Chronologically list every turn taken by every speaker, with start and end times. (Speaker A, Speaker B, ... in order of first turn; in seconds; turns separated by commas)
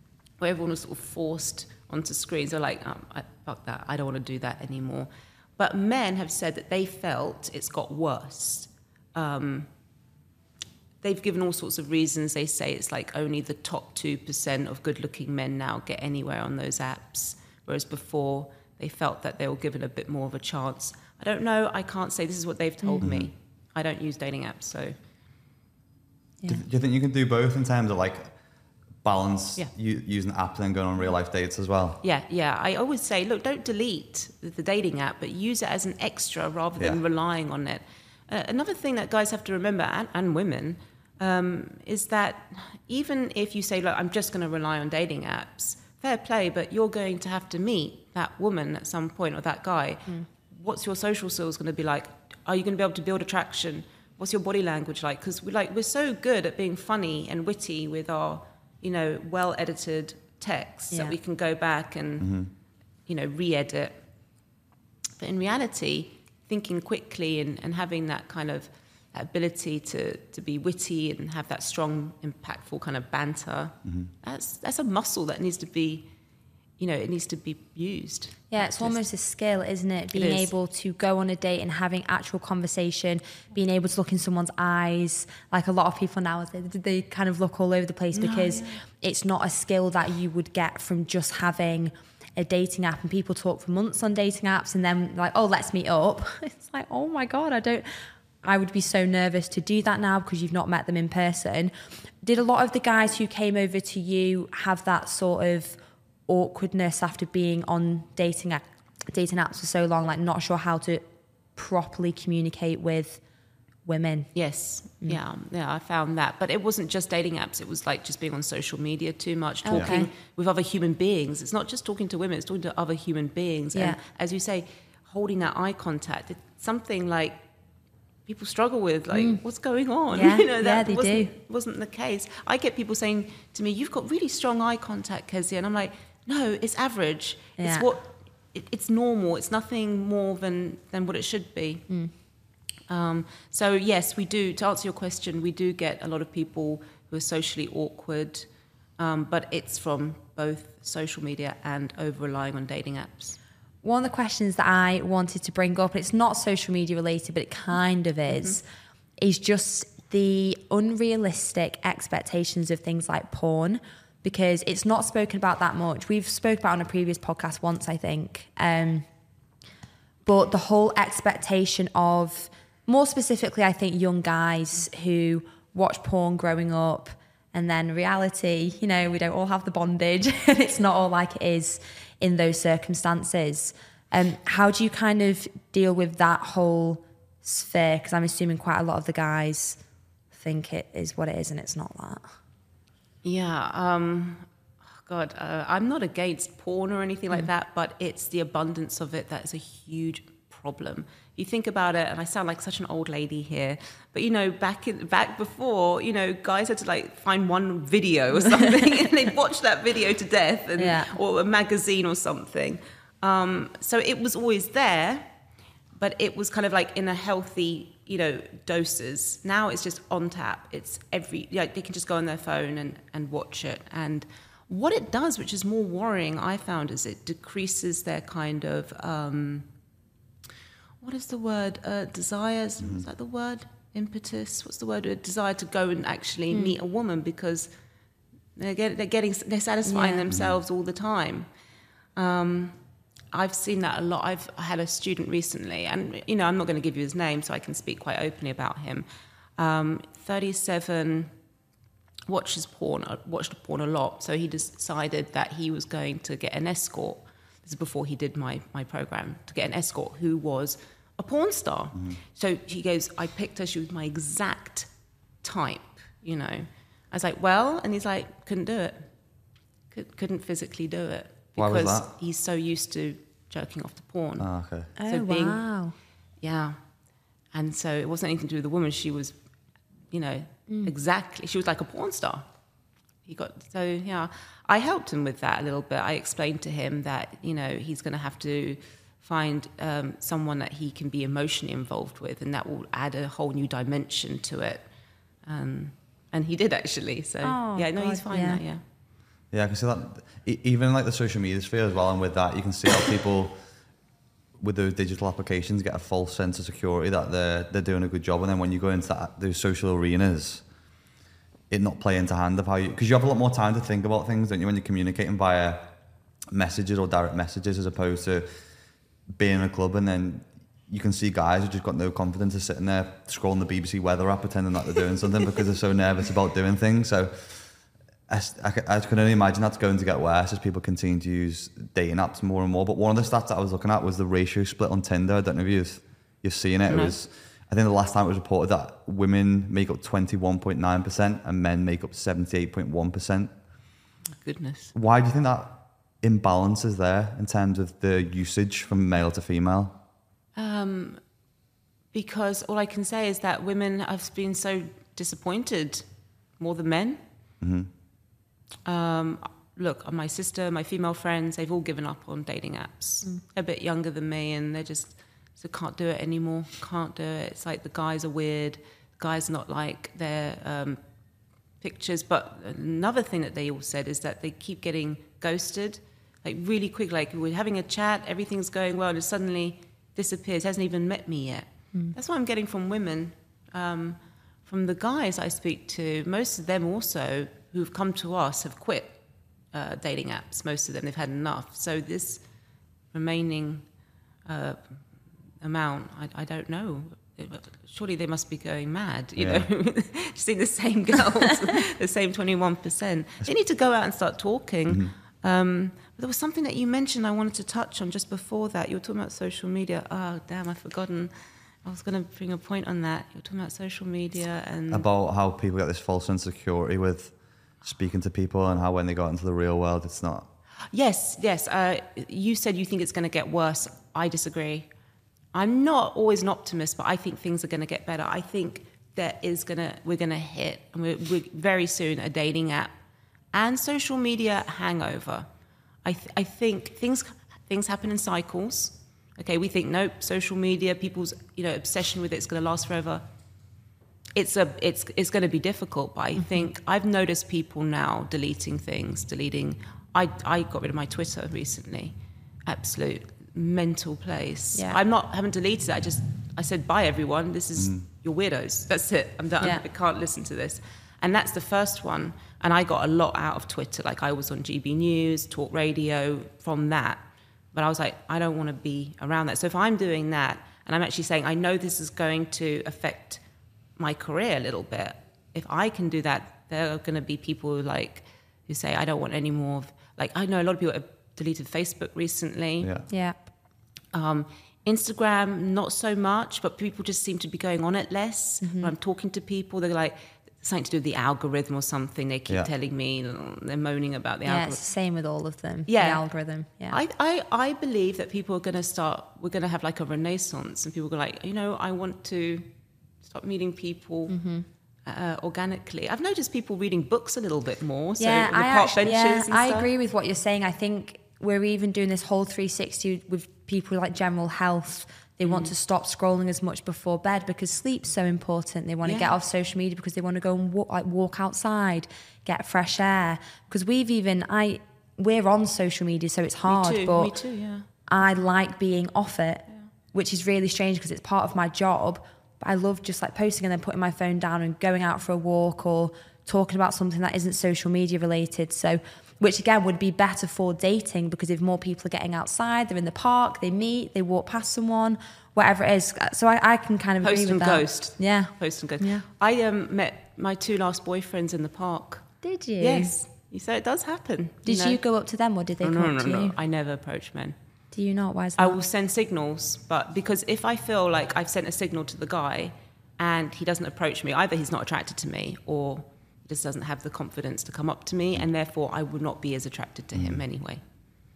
Speaker A: 0.4-9.7, Speaker A: 11.0-25.0, Speaker B: 23.0-23.3, Speaker B: 26.5-28.3, Speaker B: 29.0-32.0, Speaker A: 32.0-62.4, Speaker B: 62.2-62.5, Speaker A: 63.1-64.0, Speaker A: 65.2-76.1, Speaker A: 76.8-79.0, Speaker C: 78.5-113.2, Speaker A: 80.1-80.5, Speaker A: 88.1-88.8, Speaker C: 113.8-114.3, Speaker A: 114.3-127.4, Speaker C: 119.7-120.1, Speaker A: 128.2-141.9, Speaker C: 129.1-129.4, Speaker C: 130.1-131.3, Speaker C: 137.6-137.9, Speaker A: 142.9-153.4, Speaker C: 153.8-158.6, Speaker A: 158.3-158.6, Speaker C: 159.2-169.1, Speaker C: 170.2-189.8, Speaker C: 190.3-192.3, Speaker A: 193.2-194.4, Speaker A: 195.1-215.3, Speaker C: 210.8-211.1, Speaker A: 216.0-229.7, Speaker A: 231.0-237.7, Speaker B: 232.8-233.1, Speaker C: 236.5-236.8, Speaker A: 238.6-241.5, Speaker C: 239.8-240.2, Speaker B: 240.3-240.6, Speaker A: 242.2-242.8, Speaker A: 243.3-249.1, Speaker A: 249.6-251.3, Speaker A: 252.3-264.9, Speaker A: 265.4-269.1, Speaker A: 269.9-274.5, Speaker B: 271.6-272.1, Speaker B: 274.4-274.9, Speaker C: 275.0-275.9, Speaker A: 275.1-275.6, Speaker A: 276.4-276.8, Speaker A: 277.5-279.4, Speaker A: 280.1-282.4, Speaker A: 283.2-294.8, Speaker A: 295.4-298.8, Speaker C: 297.4-298.6, Speaker B: 299.5-303.6, Speaker B: 304.6-310.6, Speaker B: 311.7-315.9, Speaker B: 316.5-318.5, Speaker B: 319.3-343.5, Speaker A: 336.9-337.1, Speaker A: 344.4-344.9, Speaker B: 344.9-350.0, Speaker A: 350.6-351.2, Speaker A: 352.1-356.1, Speaker A: 356.6-357.2, Speaker B: 357.6-357.9, Speaker A: 358.8-371.0, Speaker A: 371.8-389.2, Speaker A: 389.7-392.4, Speaker A: 393.1-393.9, Speaker A: 394.4-395.0, Speaker A: 395.6-415.1, Speaker B: 399.4-399.7, Speaker B: 414.9-420.5, Speaker A: 420.9-424.9, Speaker A: 425.5-432.9, Speaker A: 433.5-435.5, Speaker A: 436.0-443.2, Speaker A: 444.3-473.4, Speaker C: 446.4-446.7, Speaker B: 457.8-458.0, Speaker A: 474.0-482.9, Speaker B: 482.8-483.1, Speaker C: 483.1-483.4, Speaker A: 484.1-494.8, Speaker C: 488.6-488.9, Speaker C: 494.4-497.0, Speaker A: 495.9-496.2, Speaker A: 496.9-502.7, Speaker A: 503.2-504.4, Speaker C: 504.3-504.7, Speaker A: 505.1-509.9, Speaker C: 508.2-527.3, Speaker A: 515.4-515.7, Speaker A: 519.0-519.4, Speaker A: 526.7-527.9, Speaker C: 528.1-549.2, Speaker A: 547.2-552.3, Speaker C: 552.4-553.1, Speaker A: 552.8-555.0, Speaker C: 554.6-556.5, Speaker A: 555.8-557.5, Speaker C: 557.9-558.8, Speaker A: 558.6-570.8, Speaker B: 570.1-570.4